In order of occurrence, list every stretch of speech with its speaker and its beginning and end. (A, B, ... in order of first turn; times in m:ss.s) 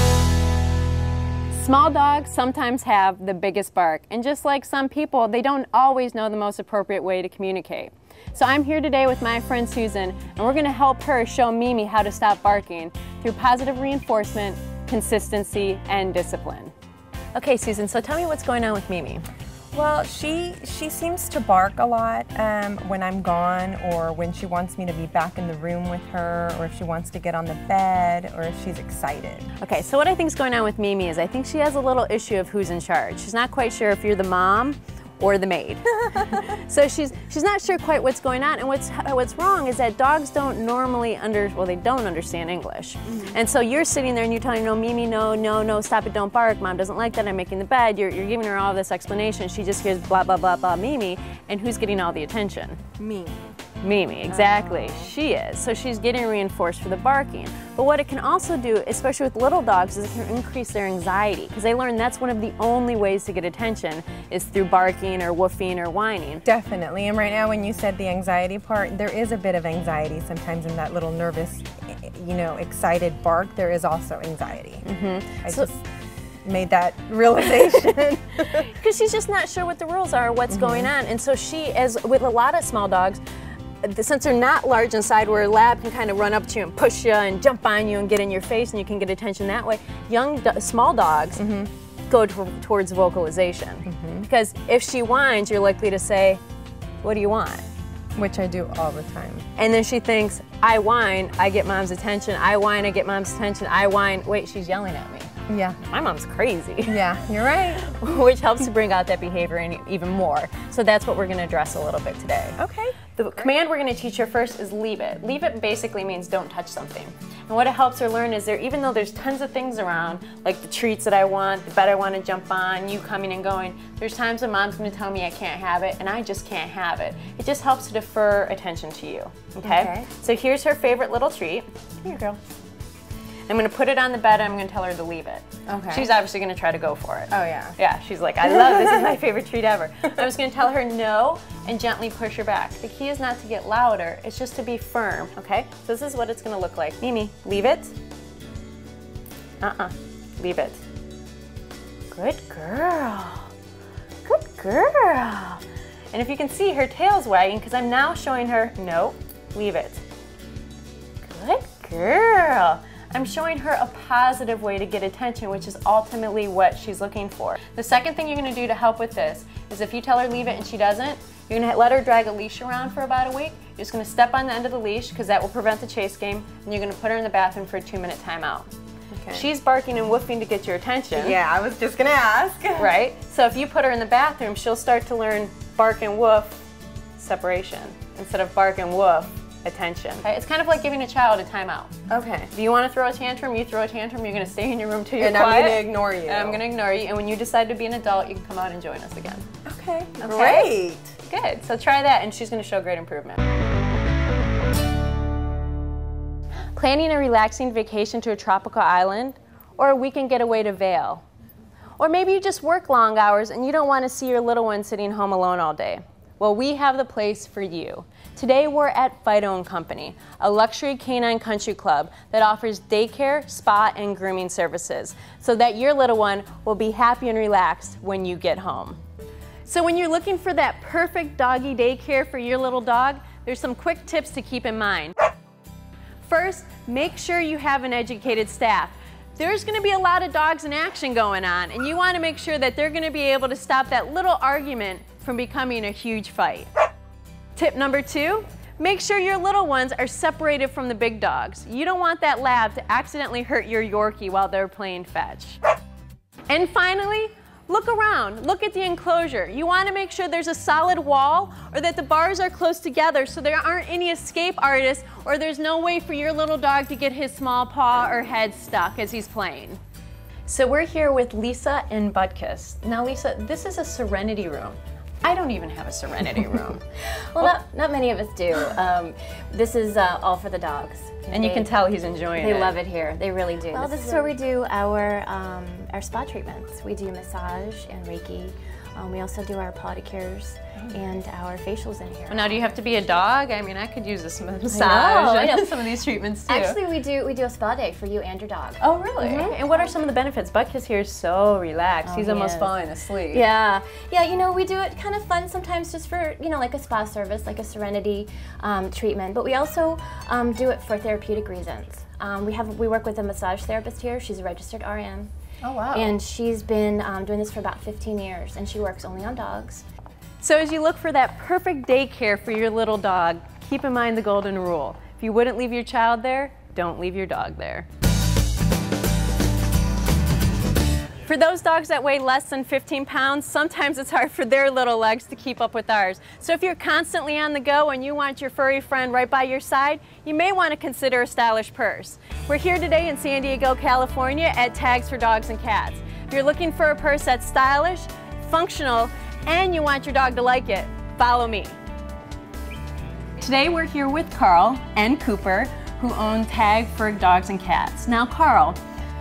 0:01.5-0:16.7 A
0:17.3-0:19.2 A
0:19.7-0:29.5 B
0:29.6-0:52.8 A
0:53.0-0:53.5 B
0:53.8-1:06.4 A
0:54.3-0:55.1 B
1:06.4-1:14.8 B
1:14.8-1:15.7 A
1:15.4-1:15.8 B
1:16.4-1:18.7 B
1:18.5-1:23.2 A
1:20.5-1:20.9 B
1:23.8-1:31.4 A
1:31.4-1:31.7 B
1:32.1-1:36.4 A
1:33.8-1:34.3 B
1:37.0-1:37.6 A
1:38.2-1:39.4 B
1:39.6-1:45.3 A
1:45.5-1:45.8 B
1:45.9-1:47.0 A
1:46.8-1:47.8 B
1:47.8-1:52.6 A
1:52.6-1:53.0 B
1:53.2-2:12.4 A
2:09.6-2:10.1 B
2:13.5-2:27.9 A
2:15.7-2:16.0 B
2:17.3-2:17.8 B
2:29.6-2:30.8 A
2:32.1-2:33.5 A
2:34.2-2:40.0 A
2:41.2-2:58.8 A
2:59.1-2:59.4 B
2:59.3-3:01.4 A
3:01.1-3:02.9 B
3:02.8-3:06.6 A
3:07.2-3:11.9 A
3:12.1-3:12.5 B
3:12.5-3:19.5 A
3:15.2-3:16.6 B
3:19.6-3:21.1 B
3:20.2-3:20.7 A
3:21.2-3:23.4 A
3:26.7-3:31.2 A
3:32.0-3:49.0 A
3:49.6-3:55.2 A
3:56.2-4:06.7 A
4:07.5-4:15.6 A
4:16.5-4:29.8 A
4:30.5-4:36.8 A
4:37.3-4:41.7 C
4:41.3-4:42.8 A
4:42.4-4:53.3 C
4:43.6-4:44.3 A
4:52.3-4:56.8 A
4:54.7-4:55.7 C
4:56.5-4:59.9 C
4:58.8-5:03.4 A
5:02.0-5:02.7 C
5:03.3-5:15.3 C
5:15.7-5:16.1 A
5:15.9-5:19.8 C
5:20.4-5:27.8 A
5:31.2-5:51.8 A
5:53.4-5:58.8 A